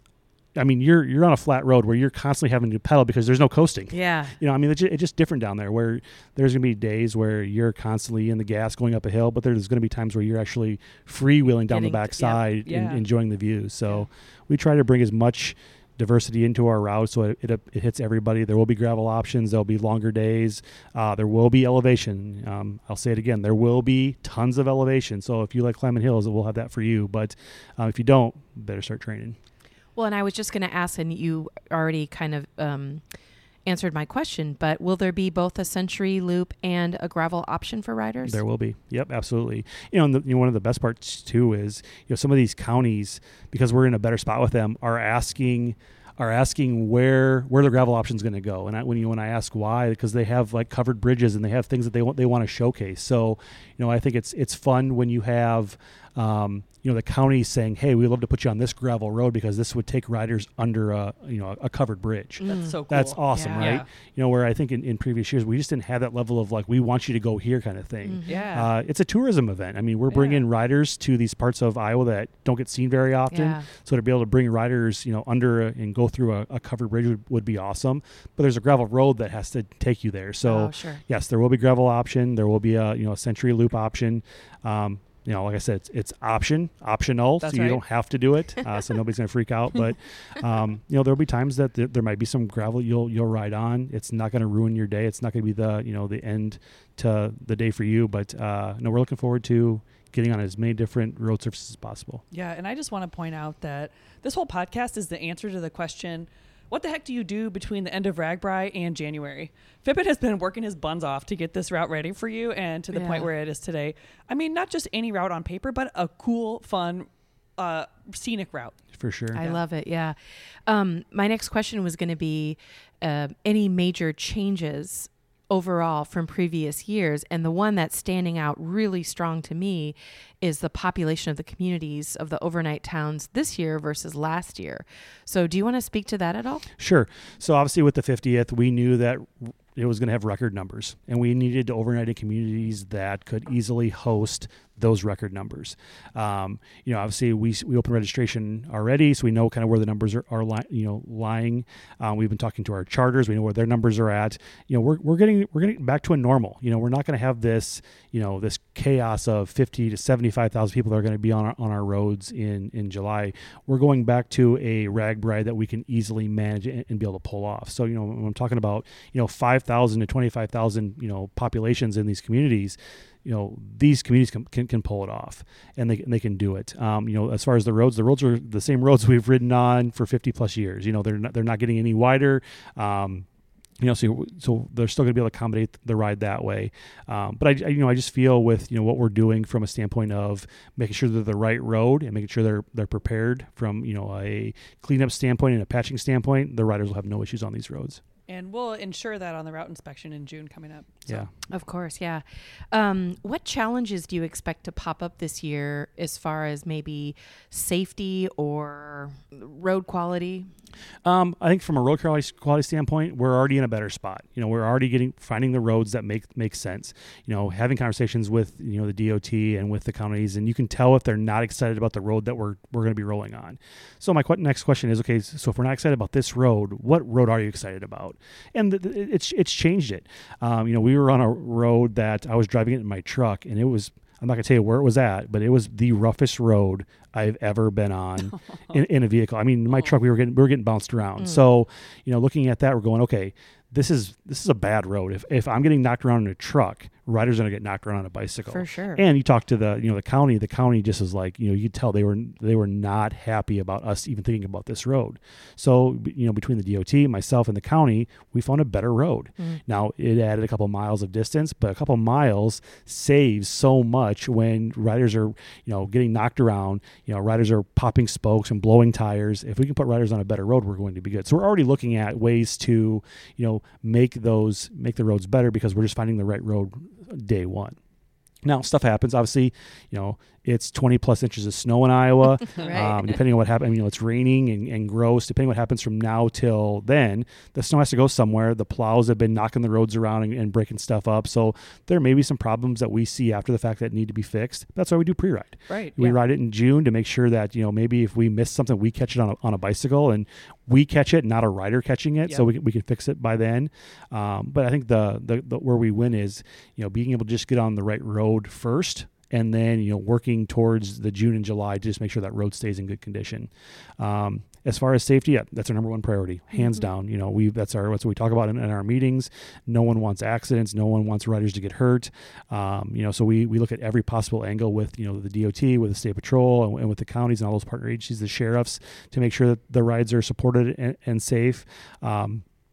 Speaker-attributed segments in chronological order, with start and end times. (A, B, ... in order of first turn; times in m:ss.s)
0:00.6-0:29.4 A
0:03.9-0:04.4 B
0:11.7-0:12.1 B
0:12.2-0:13.0 C
0:30.0-0:33.0 B
0:33.6-0:38.4 B
0:38.2-1:42.2 A
1:02.4-1:02.8 B
1:02.4-1:03.9 C
1:03.3-1:03.8 B
1:08.0-1:08.6 B
1:08.3-1:08.7 C
1:10.1-1:10.4 C
1:13.3-1:13.6 B
1:20.4-1:21.0 B
1:27.4-1:27.8 C
1:42.3-1:58.8 C
1:52.9-1:53.3 B
1:58.9-1:59.4 A
1:59.3-2:16.6 B
2:16.8-3:03.3 A
3:03.8-3:18.0 A
3:18.3-3:21.3 C
3:21.5-3:30.5 B
3:31.0-4:37.8 A
4:08.5-4:09.0 B
4:38.4-5:32.4 A
4:42.6-4:42.9 C
4:42.6-4:43.0 B
4:55.7-4:56.2 C
5:16.6-5:16.9 B